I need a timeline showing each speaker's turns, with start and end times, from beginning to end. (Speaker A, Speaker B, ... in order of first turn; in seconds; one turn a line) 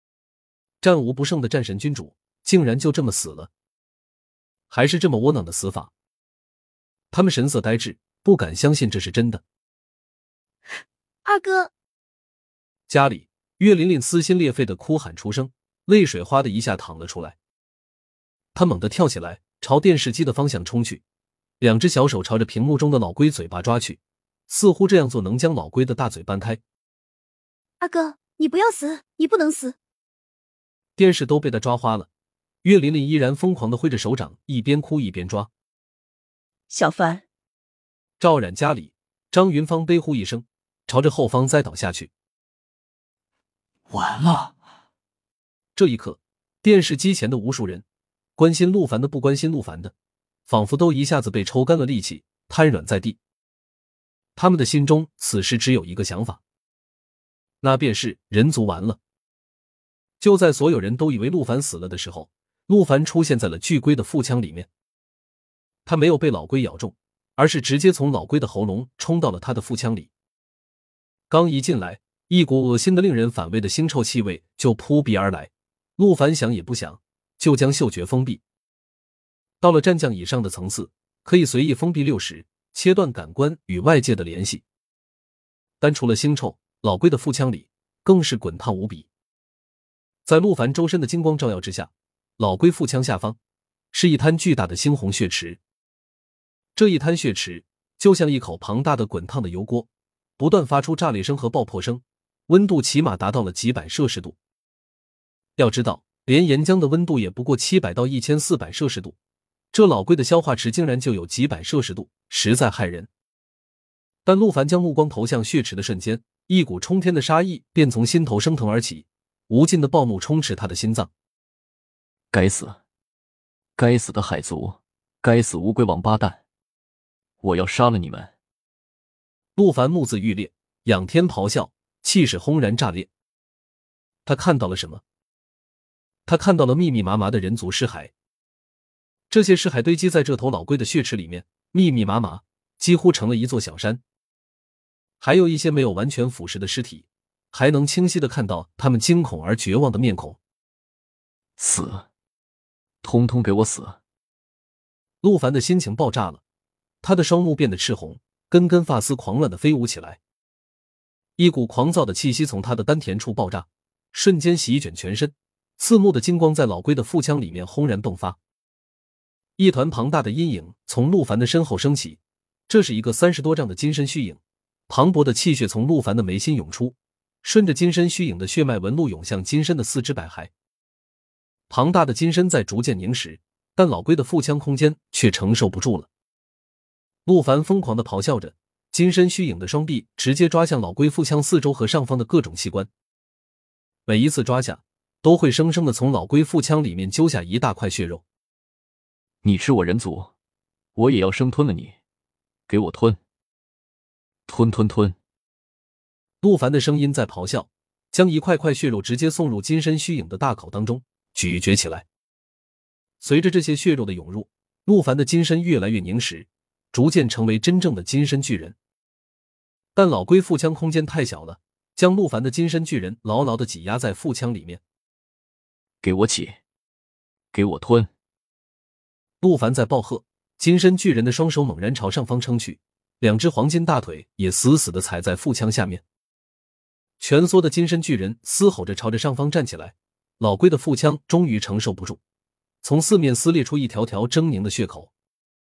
Speaker A: 0.8-3.5
Speaker A: 4.7-5.9
Speaker A: 7.1-9.4
Speaker B: 11.2-11.7
Speaker A: 12.9-17.4
Speaker A: 18.5-21.0
Speaker A: 21.6-26.6
Speaker B: 27.8-29.8
Speaker A: 30.9-32.1
Speaker A: 32.6-35.5
Speaker B: 36.7-37.2
Speaker A: 38.2-42.1
Speaker C: 43.9-44.5
Speaker A: 45.7-47.8
Speaker A: 48.4-49.9
Speaker A: 50.5-53.2
Speaker A: 54.4-56.4
Speaker A: 57.6-59.0
Speaker A: 60.2-64.7
Speaker A: 65.8-70.1
Speaker A: 71.3-78.4
Speaker A: 79.6-84.6
Speaker A: 85.8-89.1
Speaker A: 90.2-93.4
Speaker A: 93.9-95.6
Speaker A: 96.8-104.3
Speaker A: 105.6-109.2
Speaker A: 109.7-113.1
Speaker A: 114.2-121.1
Speaker C: 122.3-122.8
Speaker C: 123.8-126.4
Speaker C: 127.4-128.3
Speaker A: 129.6-133.1
Speaker A: 134.2-135.0
Speaker A: 136.2-138.1
Speaker A: 139.3-144.0
Speaker A: 145.2-150.4
Speaker C: 151.6-152.1
Speaker C: 153.0-154.0
Speaker A: 155.2-156.4
Speaker A: 157.0-160.2
Speaker A: 161.4-168.4
Speaker A: 169.6-180.5
Speaker A: 181.7-186.1
Speaker A: 187.2-192.9
Speaker A: 194.1-198.2
Speaker C: 199.4-200.3
Speaker C: 200.9-201.9
Speaker C: 202.7-203.2
Speaker C: 204.5-205.2
Speaker A: 206.4-212.1
Speaker A: 213.2-218.8
Speaker A: 219.9-224.8
Speaker C: 226.0-226.6
Speaker C: 227.5-228.1
Speaker A: 229.4-236.0
Speaker A: 237.2-242.2
Speaker A: 242.8-245.1